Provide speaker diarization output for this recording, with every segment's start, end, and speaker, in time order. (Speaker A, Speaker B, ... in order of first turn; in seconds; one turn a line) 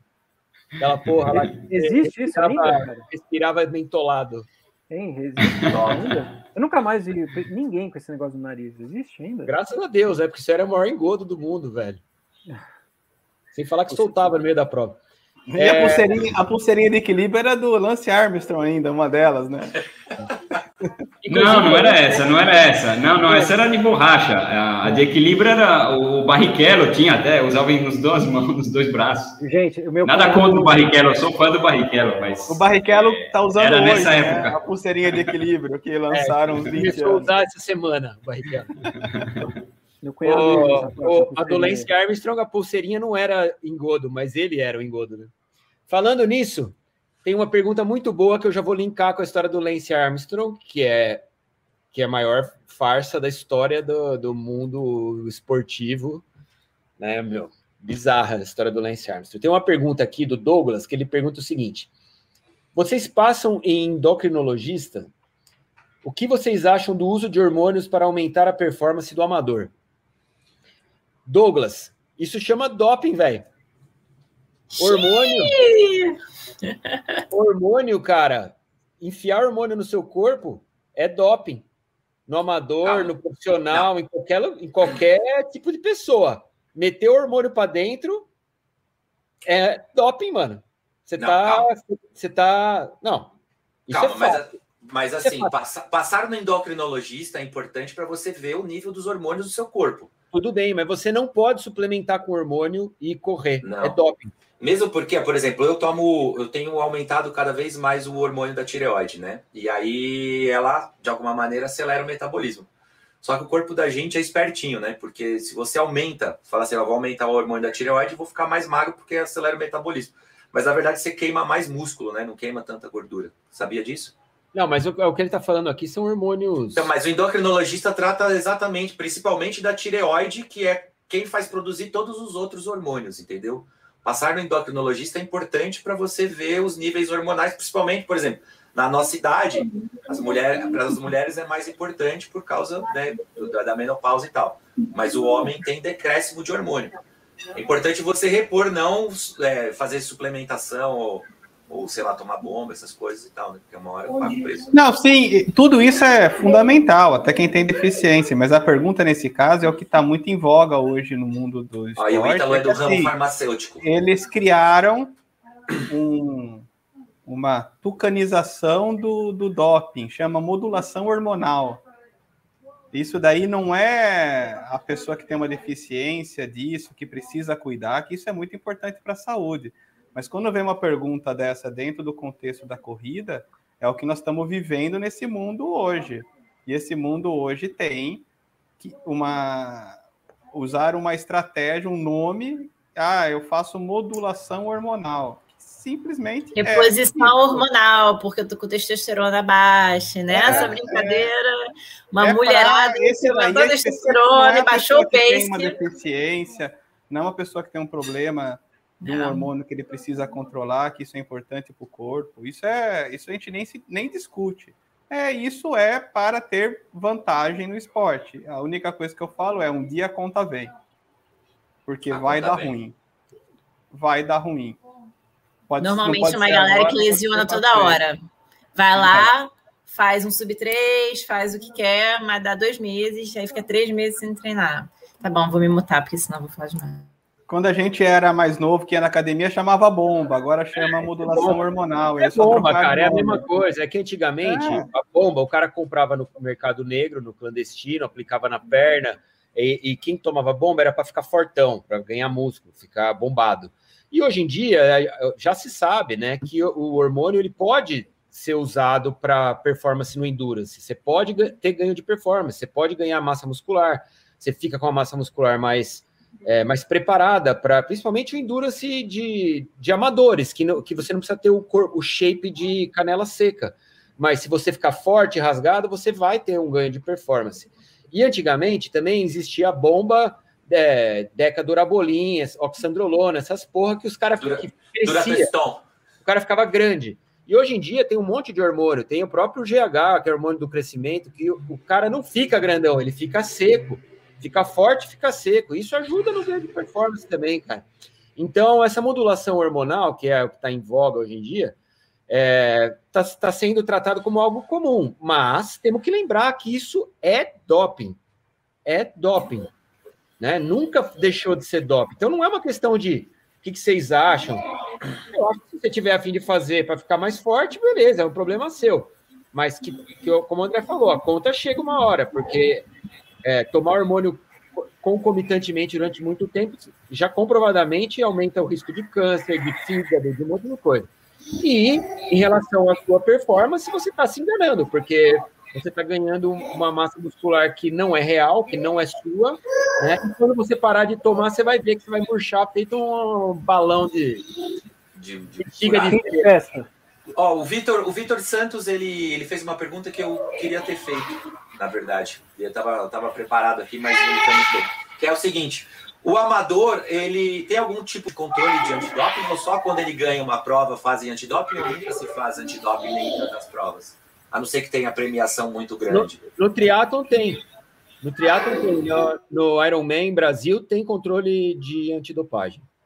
Speaker A: 0.8-4.5
Speaker B: 1.3-3.0
Speaker B: 4.9-9.5
Speaker C: 5.4-5.7
Speaker A: 9.4-12.0
Speaker A: 13.5-15.0
Speaker B: 13.9-14.2
Speaker D: 15.5-19.8
Speaker A: 15.6-16.1
Speaker A: 21.2-22.3
Speaker C: 21.3-29.4
Speaker B: 23.2-23.5
Speaker B: 29.4-31.2
Speaker C: 30.0-34.6
Speaker D: 32.5-37.3
Speaker A: 36.1-38.7
Speaker C: 39.0-39.5
Speaker B: 40.0-41.9
Speaker A: 40.2-45.3
Speaker A: 45.9-51.2
Speaker A: 51.9-56.2
Speaker A: 57.0-61.9
Speaker A: 62.7-65.1
Speaker A: 66.0-69.7
Speaker A: 71.2-73.5
Speaker A: 74.8-75.5
Speaker E: 74.8-77.0
Speaker A: 77.3-81.7
Speaker A: 82.3-88.3
Speaker F: 82.8-83.1
Speaker A: 89.5-93.3
Speaker F: 91.2-91.7
Speaker A: 93.9-94.5
Speaker F: 93.9-100.1
Speaker A: 95.2-95.5
Speaker A: 100.3-104.3
Speaker F: 103.6-104.0
Speaker F: 104.6-112.7
Speaker F: 113.2-124.2
Speaker A: 124.5-126.9
Speaker F: 126.8-146.9
Speaker F: 147.5-154.7
Speaker D: 154.7-163.1
Speaker F: 162.0-163.8
Speaker D: 163.8-165.2
Speaker D: 165.9-166.7
Speaker D: 167.2-171.8
Speaker D: 172.9-188.2
Speaker D: 188.8-190.0
Speaker D: 190.5-197.7
Speaker E: 196.6-205.8
Speaker D: 200.3-201.3
Speaker D: 202.2-220.7
Speaker E: 209.0-209.5
Speaker D: 221.8-223.0
Speaker F: 222.1-222.7
Speaker D: 223.9-224.8
Speaker D: 225.7-228.0
Speaker E: 225.8-228.2
Speaker E: 228.8-237.1
Speaker D: 228.9-229.3
Speaker D: 237.5-243.5
Speaker A: 241.3-241.6
Speaker A: 242.2-285.5
Speaker D: 244.4-244.8
Speaker F: 284.4-285.8
Speaker A: 286.2-301.7
Speaker A: 302.3-308.2
Speaker A: 308.9-309.7
Speaker A: 310.4-314.7
Speaker A: 315.2-322.9
Speaker A: 323.4-344.5
Speaker F: 345.1-346.2
Speaker A: 345.6-346.5
Speaker B: 346.1-346.9
Speaker F: 347.3-366.4
Speaker A: 366.1-367.6
Speaker A: 368.2-372.9